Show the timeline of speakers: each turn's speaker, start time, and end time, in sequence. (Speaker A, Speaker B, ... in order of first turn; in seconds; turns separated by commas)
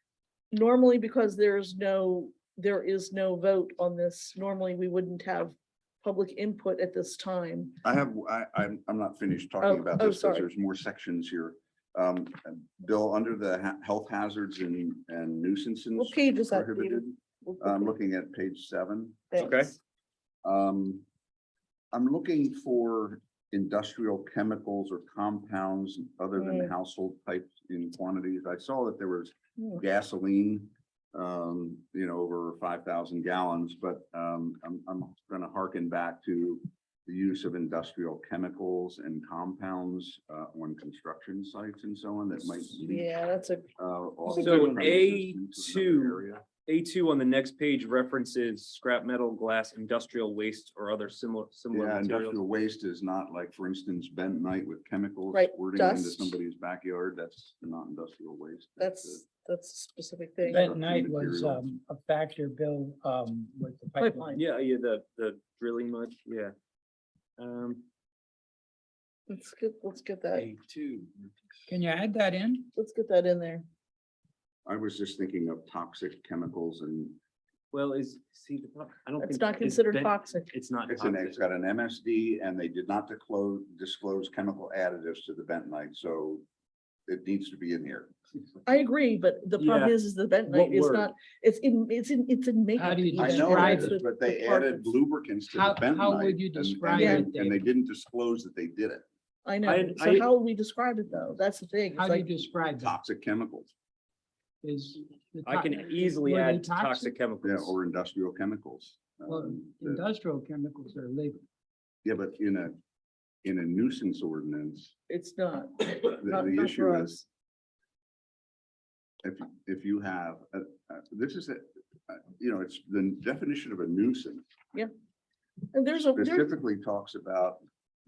Speaker A: 0.5-7.8, Speaker B: 7.8-19.3, Speaker A: 9.6-10.5, Speaker A: 16.0-18.0, Speaker A: 19.3-19.8, Speaker C: 19.4-19.7, Speaker B: 20.4-21.1, Speaker B: 21.9-43.1, Speaker A: 26.4-26.7, Speaker A: 42.8-43.7, Speaker B: 43.8-46.4, Speaker C: 44.3-52.4, Speaker A: 44.3-44.7, Speaker B: 51.7-59.2, Speaker A: 55.3-56.4, Speaker A: 58.8-60.7, Speaker D: 60.5-64.4, Speaker B: 60.5-61.6, Speaker A: 64.0-64.4, Speaker C: 64.3-66.5, Speaker C: 67.4-67.8, Speaker A: 69.3-70.5, Speaker C: 70.3-71.1, Speaker D: 71.7-72.7, Speaker A: 72.8-73.7, Speaker B: 74.7-77.2, Speaker C: 77.7-81.4, Speaker A: 79.2-80.5, Speaker B: 80.9-86.5, Speaker B: 87.1-88.1, Speaker A: 88.7-94.8, Speaker C: 89.6-91.1, Speaker D: 92.8-94.0, Speaker B: 93.2-99.0, Speaker D: 95.5-97.6, Speaker A: 96.9-97.3, Speaker A: 99.5-102.3, Speaker C: 99.7-100.3, Speaker D: 101.9-103.0, Speaker B: 102.8-103.7, Speaker D: 104.6-107.2, Speaker C: 105.5-107.8, Speaker B: 107.4-110.0, Speaker D: 109.3-111.4, Speaker B: 112.0-112.8, Speaker B: 113.4-114.9, Speaker A: 115.1-117.2, Speaker B: 116.2-117.2, Speaker B: 119.2-124.4, Speaker A: 125.7-126.5, Speaker B: 126.2-127.6